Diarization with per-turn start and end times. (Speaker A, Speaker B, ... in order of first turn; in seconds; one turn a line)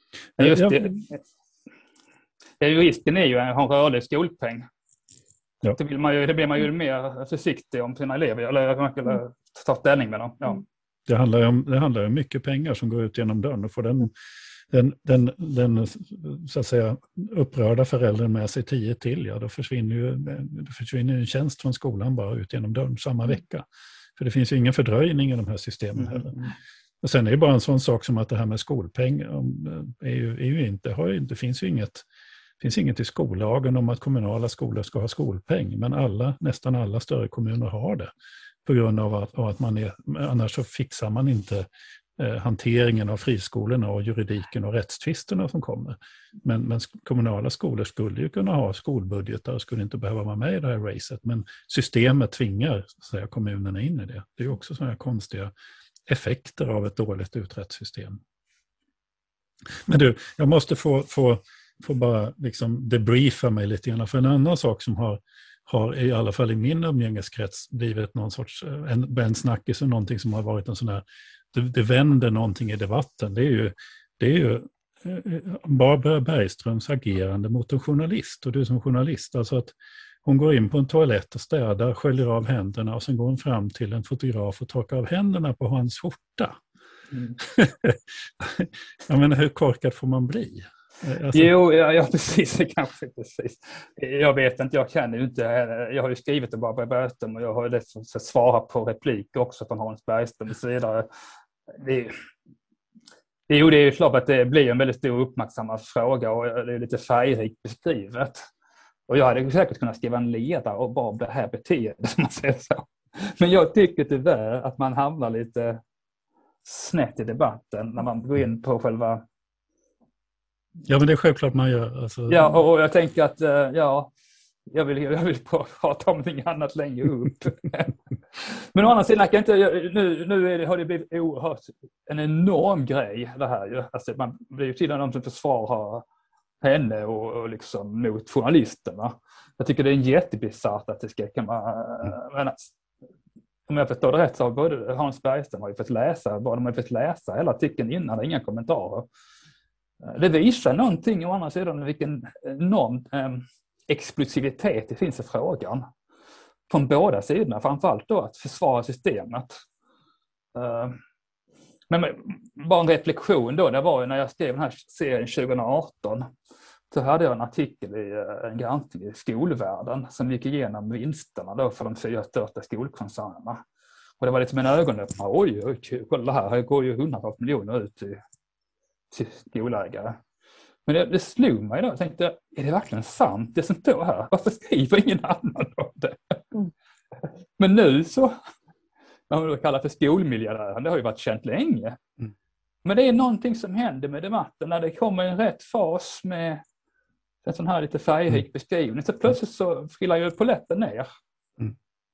Speaker A: 0.4-0.8
Speaker B: 0.4-1.0
Speaker B: 2.6-4.7
Speaker B: 5.7-10.6
Speaker A: 11.1-14.1
Speaker A: 14.7-23.6
Speaker A: 24.2-26.3
Speaker B: 26.0-26.5
Speaker A: 27.0-32.0
Speaker A: 32.6-38.1
Speaker A: 38.6-41.7
Speaker A: 42.2-55.5
Speaker A: 56.1-58.2
Speaker A: 59.9-86.6
Speaker A: 87.4-91.5
Speaker B: 91.3-101.1
Speaker B: 101.7-102.1
Speaker B: 103.5-108.5
Speaker B: 109.1-115.8
Speaker B: 116.6-119.2
Speaker A: 120.8-122.6
Speaker B: 122.3-124.1
Speaker B: 124.7-136.0
Speaker B: 136.6-142.7
Speaker B: 143.7-149.1
Speaker B: 150.0-155.8
Speaker B: 156.7-159.6
Speaker B: 160.5-161.0
Speaker B: 161.9-166.3
Speaker B: 166.9-173.6
Speaker B: 174.2-178.2
Speaker B: 179.1-180.2
Speaker B: 180.8-186.4
Speaker B: 187.6-188.3
Speaker B: 189.3-192.0
Speaker B: 192.8-196.6
Speaker B: 197.4-201.1